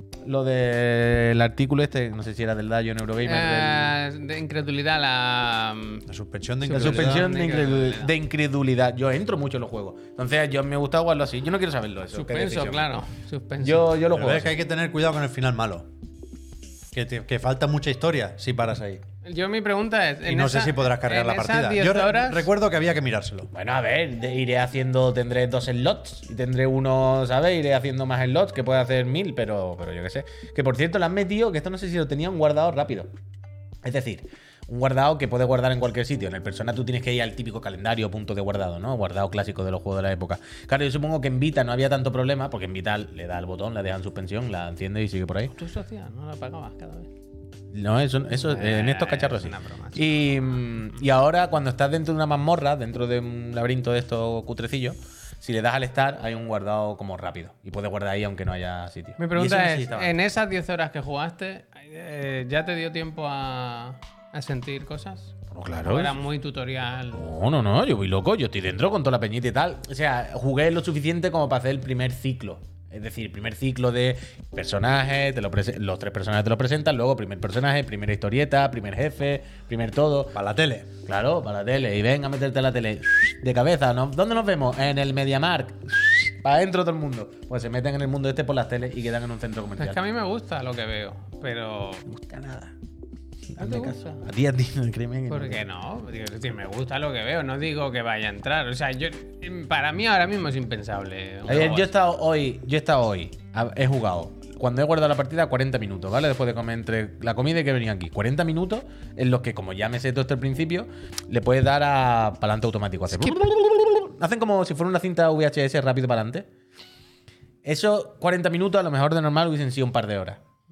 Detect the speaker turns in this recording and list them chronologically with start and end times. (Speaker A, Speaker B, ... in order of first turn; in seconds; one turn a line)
Speaker A: 0.2-3.9
Speaker B: 3.2-6.1
Speaker C: 6.1-7.2
Speaker B: 6.6-8.1
Speaker A: 6.8-12.9
Speaker B: 12.1-13.9
Speaker A: 13.6-14.5
Speaker C: 14.1-15.9
Speaker C: 16.9-19.0
Speaker B: 19.2-22.5
Speaker C: 20.2-23.5
Speaker A: 23.5-33.1
Speaker A: 33.8-45.5
Speaker B: 45.5-47.1
Speaker A: 47.7-60.1
Speaker B: 48.3-50.6
Speaker B: 59.2-67.3
Speaker A: 65.5-66.1
Speaker A: 67.1-80.4
Speaker C: 80.3-80.9
Speaker A: 81.1-90.0
Speaker B: 89.8-92.1
Speaker A: 92.1-92.7
Speaker A: 93.5-95.6
Speaker B: 93.6-94.2
Speaker B: 95.3-101.9
Speaker A: 101.5-116.4
Speaker A: 117.6-120.4